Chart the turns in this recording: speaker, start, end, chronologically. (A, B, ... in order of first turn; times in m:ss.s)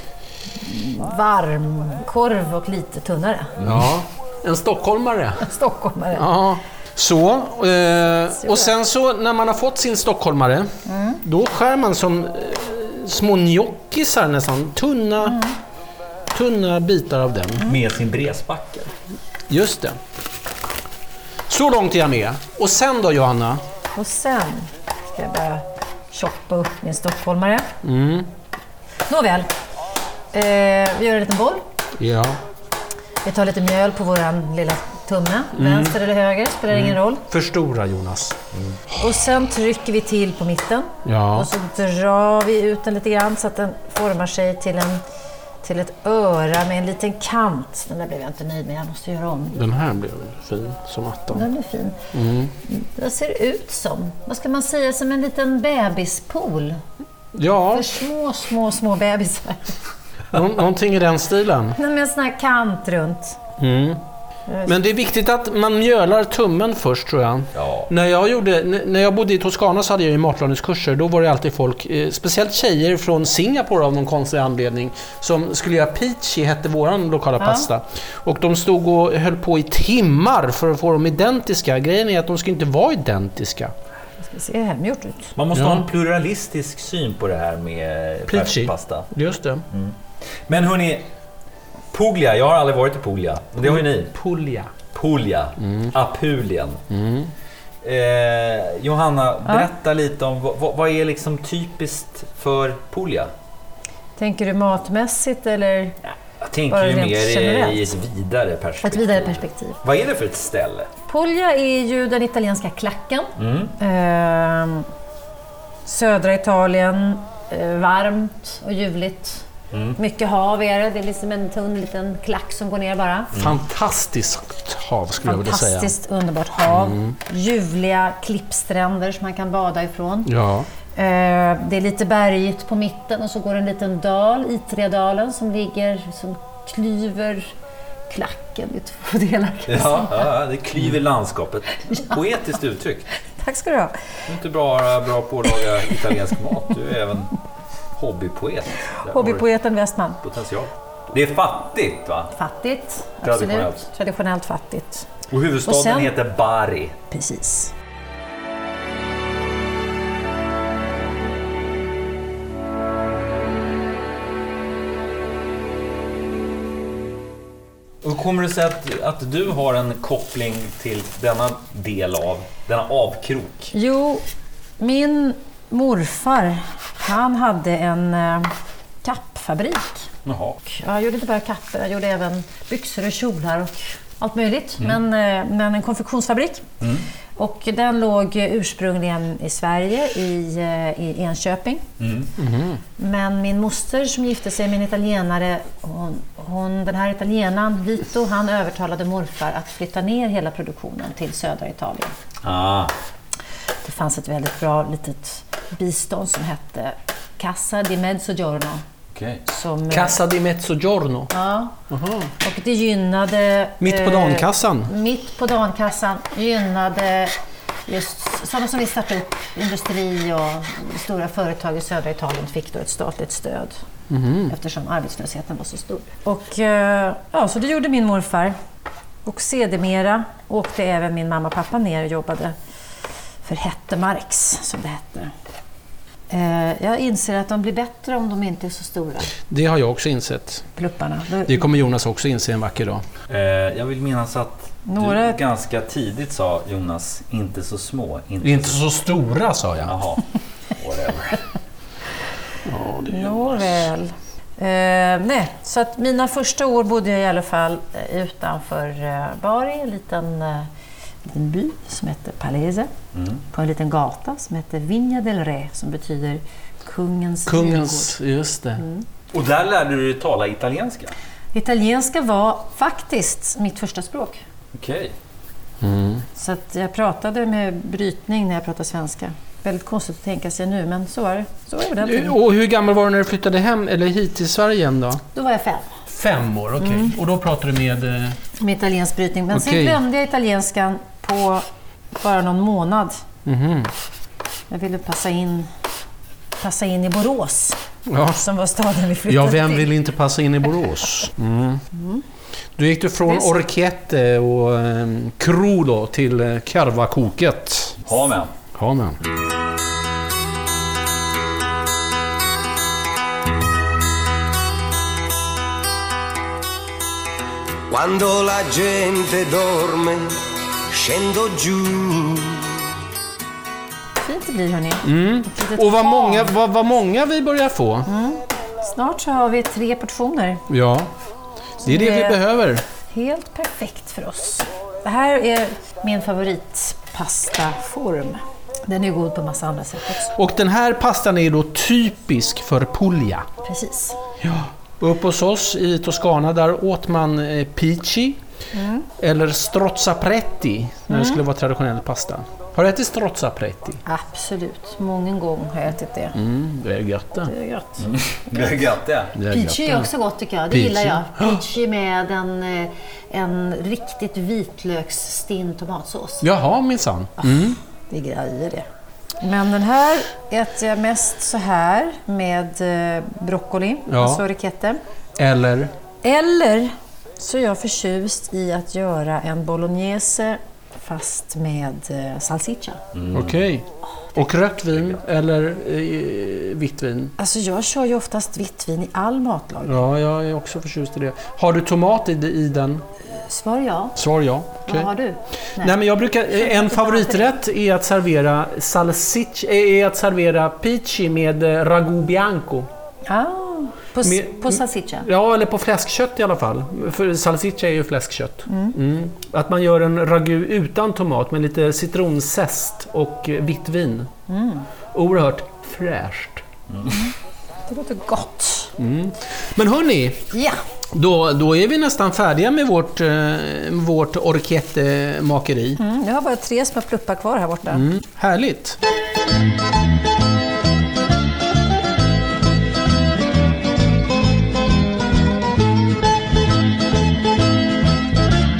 0:00.6-0:03.6 A
0:03.6-0:03.9 B
0:03.6-0:05.5 C
0:05.4-0:06.3 A
0:06.1-0:10.7 C
0:08.4-0:08.7 A
0:10.9-0:11.2 A
0:11.2-0:15.4 C
0:15.2-0:15.5 A
0:16.3-0:17.7 C
0:17.6-0:18.9 B
0:19.5-0:20.0 C
0:21.5-0:23.6 C
0:23.9-0:27.7 A
0:27.8-0:28.3 C
0:29.0-0:29.5 A
0:30.3-0:31.6 A
0:32.0-0:32.4 C
0:33.2-0:37.2 A
0:35.6-0:36.0 C
0:36.7-0:38.4 C
0:39.0-0:45.0 A
0:41.0-0:41.5 C
0:45.6-0:49.6 A
0:49.5-0:51.4 C
0:51.3-0:52.0 A
0:52.1-0:52.5 C
0:52.6-0:56.8 A
0:57.3-0:57.8 C
0:57.6-0:59.8 A
1:00.3-1:01.8 C
1:01.8-1:03.4 A
1:03.6-1:04.0 C
1:04.5-1:04.7 A
1:04.6-1:23.7 C
1:07.5-1:07.9 B
1:17.4-1:17.7 A
1:24.2-1:25.3 A
1:25.4-1:29.1 B
1:25.5-1:25.8 C
1:28.3-1:29.6 C
1:29.7-1:30.0 B
1:30.5-1:31.1 B
1:31.9-1:34.1 B
1:33.6-1:34.7 C
1:34.9-1:36.8 B
1:35.6-1:35.9 C
1:36.9-1:37.3 C
1:37.8-1:43.3 B
1:44.2-1:46.1 A
1:46.4-1:50.9 B
1:46.7-1:47.9 A
1:48.8-1:49.8 A
1:51.1-1:54.9 A
1:53.4-1:53.8 B
1:55.8-1:59.4 A
1:59.7-2:00.0 B
2:00.0-2:03.3 A
2:03.4-2:05.9 C
2:05.2-2:10.3 A
2:06.6-2:07.1 C
2:10.2-2:10.7 C
2:10.9-2:17.5 A
2:18.1-2:20.3 A
2:19.7-2:23.0 B
2:21.9-2:22.2 A
2:23.4-2:24.0 A
2:24.3-2:27.3 B
2:28.0-2:29.4 B
2:29.1-2:30.2 A
2:30.2-2:32.3 B
2:32.3-2:35.1 A
2:33.2-2:33.8 B
2:35.3-2:37.0 B
2:35.6-2:36.1 A
2:37.1-2:37.7 A
2:48.0-2:53.7 B
2:53.7-2:54.2 A
2:54.8-2:58.5 A
2:59.0-3:00.1 A
3:00.2-3:00.6 B
3:00.6-3:06.7 A
3:06.8-3:07.0 B
3:07.4-3:11.8 A
3:12.0-3:12.3 B
3:12.4-3:12.8 C
3:13.0-3:22.1 A
3:22.4-3:22.9 B
3:23.8-3:28.8 A
3:29.1-3:29.4 B
3:29.5-3:30.2 A
3:29.9-3:31.3 C
3:31.3-3:31.8 A
3:31.9-3:32.3 C
3:32.4-3:43.8 A
3:33.8-3:34.9 C
3:44.1-3:44.5 C
3:44.5-3:48.6 A
3:49.2-3:52.5 A
3:53.4-3:55.3 A
3:56.3-3:59.3 A
3:59.4-4:00.6 C
4:00.8-4:01.6 A
4:01.5-4:03.0 C
4:03.3-4:08.8 B
4:04.8-4:05.4 A
4:08.4-4:09.9 C
4:09.8-4:11.4 B
4:12.6-4:13.9 C
4:13.1-4:20.7 A
4:21.2-4:22.9 A
4:23.1-4:23.4 B
4:23.5-4:28.1 A
4:27.4-4:28.8 C
4:28.8-4:29.0 A
4:29.3-4:31.1 B
4:31.5-4:34.4 A
4:34.7-4:35.1 B
4:35.8-4:36.2 C
4:36.4-4:42.4 A
4:42.0-4:45.2 C
4:45.3-4:45.9 A
4:46.1-4:48.4 C
4:46.8-4:47.1 A
4:48.6-4:51.6 A
4:49.5-4:50.0 C
4:52.2-4:53.2 A
4:53.4-4:53.9 C
4:54.7-4:55.7 A
4:56.6-4:59.9 A
4:58.1-4:58.4 C
4:59.3-5:01.8 C
5:01.9-5:02.2 A
5:02.8-5:08.0 C
5:03.2-5:03.6 A
5:08.0-5:08.5 B
5:08.7-5:09.2 C
5:17.9-5:20.4 D
5:20.9-5:22.6 D
5:24.2-5:26.5 A
5:25.0-5:28.1 C
5:28.1-5:30.6 A
5:30.7-5:31.1 C
5:31.8-5:32.8 C
5:31.8-5:32.4 A
5:33.1-5:40.4 A
5:40.4-5:43.5 C
5:43.6-5:44.2 A
5:44.4-5:48.4 C
5:48.7-5:49.1 A
5:49.2-5:54.0 C
5:51.1-5:51.4 A
5:54.0-5:56.4 A
5:56.3-5:57.5 C
5:57.4-5:58.0 A
5:58.0-5:59.3 B
5:59.3-6:00.1 C
5:59.5-6:06.5 A
6:00.7-6:01.6 C
6:06.4-6:07.8 C
6:07.4-6:08.9 A
6:09.4-6:15.0 A
6:14.1-6:14.4 C
6:15.4-6:15.9 C
6:16.2-6:23.0 A
6:23.1-6:23.6 B
6:23.3-6:27.3 C
6:27.4-6:30.0 A
6:29.8-6:33.0 C
6:33.2-6:34.2 A
6:34.2-6:35.1 C
6:34.8-6:36.0 A
6:35.8-6:42.9 C
6:36.5-6:37.5 A
6:43.2-6:45.3 A
6:44.2-6:54.3 C
6:48.7-6:49.0 A
6:54.5-6:54.9 A
6:55.1-6:56.6 C
6:56.9-6:57.2 B
6:57.9-6:58.9 A
6:59.0-7:00.5 C
7:00.5-7:00.8 A
7:01.1-7:06.0 C
7:06.0-7:08.1 A
7:07.9-7:09.0 C